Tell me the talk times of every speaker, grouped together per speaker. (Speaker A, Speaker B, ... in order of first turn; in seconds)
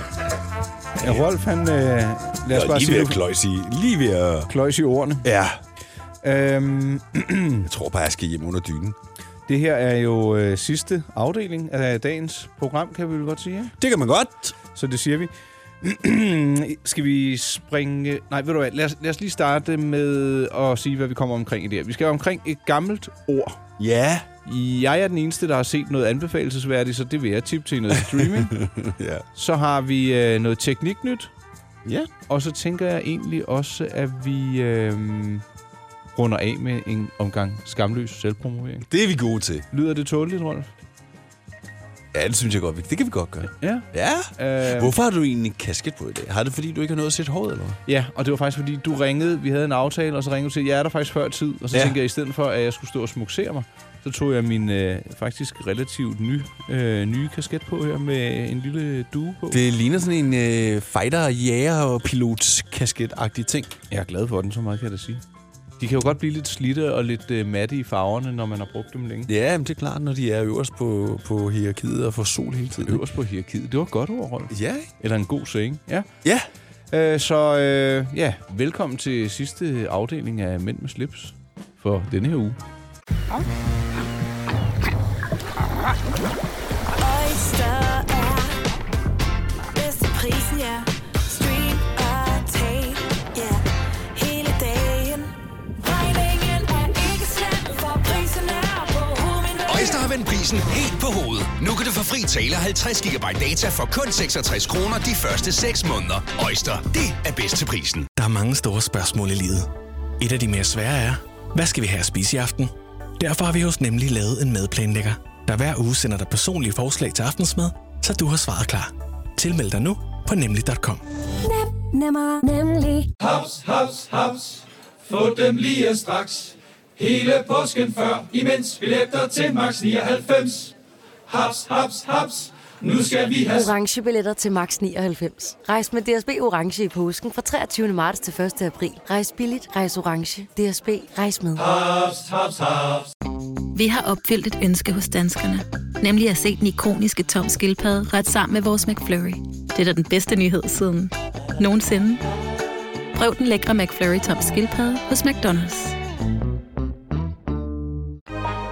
Speaker A: 1.0-3.2, 4.5-5.3, 6.2-7.7, 9.5-13.8, 14.7-15.3, 15.8-23.6, 24.4-28.5, 29.4-31.3, 32.3-35.4, 36.1-38.9, 39.7-40.7, 43.6-45.0, 47.9-59.6, 63.9-65.2, 65.8-69.3, 72.8-76.1, 76.9-82.6
Speaker B: 2.5-4.5, 5.2-5.6, 7.7-9.0, 13.8-14.6, 23.8-24.3, 27.9-29.2, 38.9-39.7, 42.1-47.8, 59.5-63.8, 69.3-73.0, 74.5-74.9
Speaker C: 87.0-88.6, 89.8-93.6, 94.2-100.1
Speaker D: 99.7-108.1
Speaker E: 108.2-109.7, 110.2-121.0
Speaker F: 123.2-130.7, 131.3-133.7, 141.6-143.1
Speaker G: 133.4-141.6
Speaker H: 143.8-152.2, 153.2-155.9